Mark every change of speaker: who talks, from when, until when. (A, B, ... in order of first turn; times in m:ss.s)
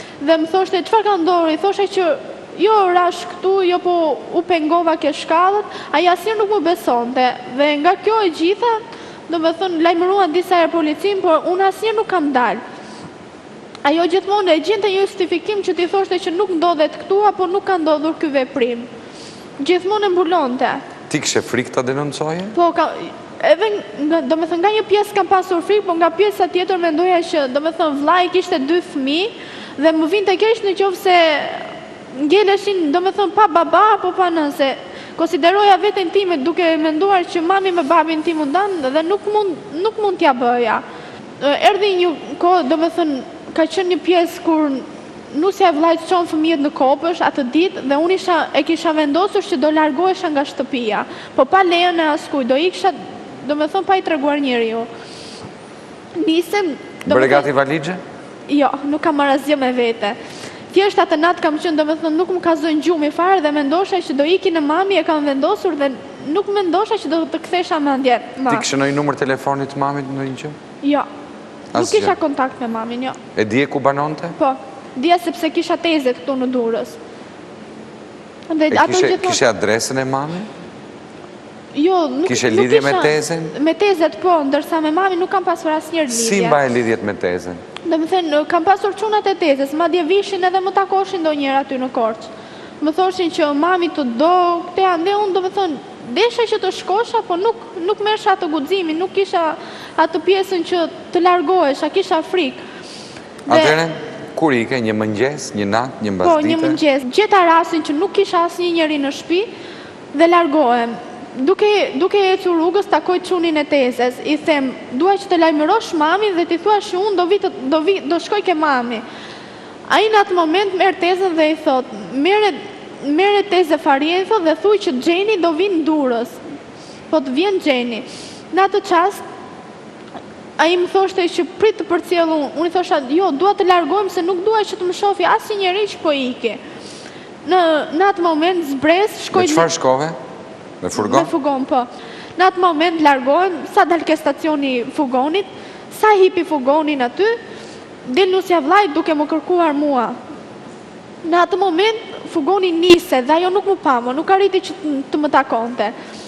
0:00.2-0:12.6 A
0:13.8-0:18.9 A
0:19.6-0:20.8 A
0:21.1-0:22.6 B
0:22.5-0:40.8 A
0:41.4-0:54.9 A
0:56.1-0:57.5 A
0:57.1-0:58.0 B
0:58.5-1:00.2 A
1:00.7-1:08.7 A
1:08.5-1:10.6 B
1:10.8-1:11.1 A
1:11.7-1:12.2 B
1:11.7-1:13.2 A
1:13.4-1:14.4 B
1:14.4-1:17.0 A
1:18.5-1:19.4 A
1:18.7-1:20.5 B
1:21.7-1:26.6 A
1:22.3-1:23.6 B
1:26.1-1:27.6 B
1:27.8-1:42.6 A
1:43.5-1:46.8 B
1:43.5-1:43.8 A
1:46.2-1:49.5 A
1:50.1-1:59.0 A
1:59.9-2:06.4 A
2:07.1-2:09.2 A
2:10.6-2:16.6 A
2:17.4-2:19.7 A
2:19.3-2:20.2 B
2:20.8-2:21.3 B
2:21.0-2:27.4 A
2:28.1-2:30.2 A
2:31.2-2:36.0 A